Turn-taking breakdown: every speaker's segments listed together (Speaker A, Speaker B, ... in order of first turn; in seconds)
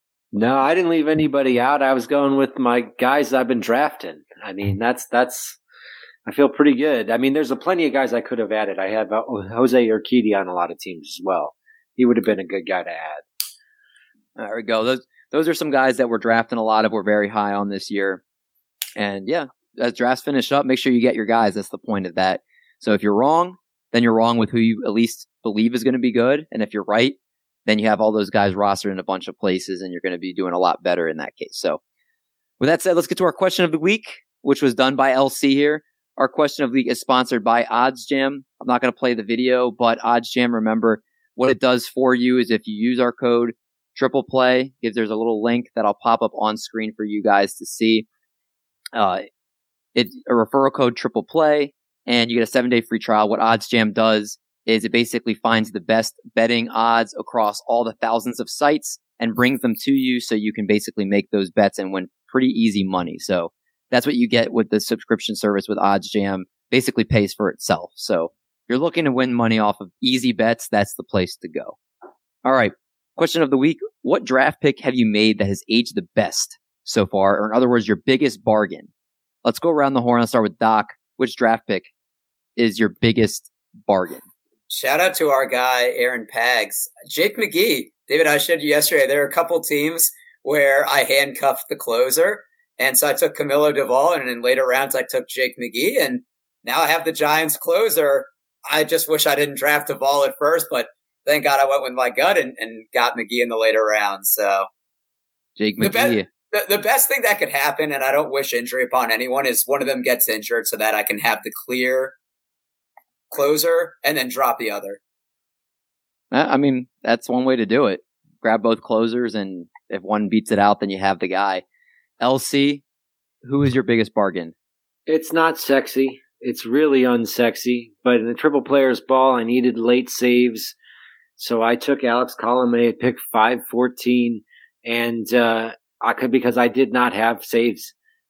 Speaker A: 0.3-5.6, 6.3-13.2, 125.1-130.8, 131.4-137.9
Speaker B: 14.4-18.2, 19.0-31.8, 32.6-48.1, 49.0-49.3, 50.0-71.8, 72.4-78.9, 79.4-81.9, 82.6-84.3, 105.6-106.3, 116.3-121.6, 122.2-122.8, 123.4-124.5
Speaker C: 84.7-104.7, 105.8-112.2, 113.3-115.0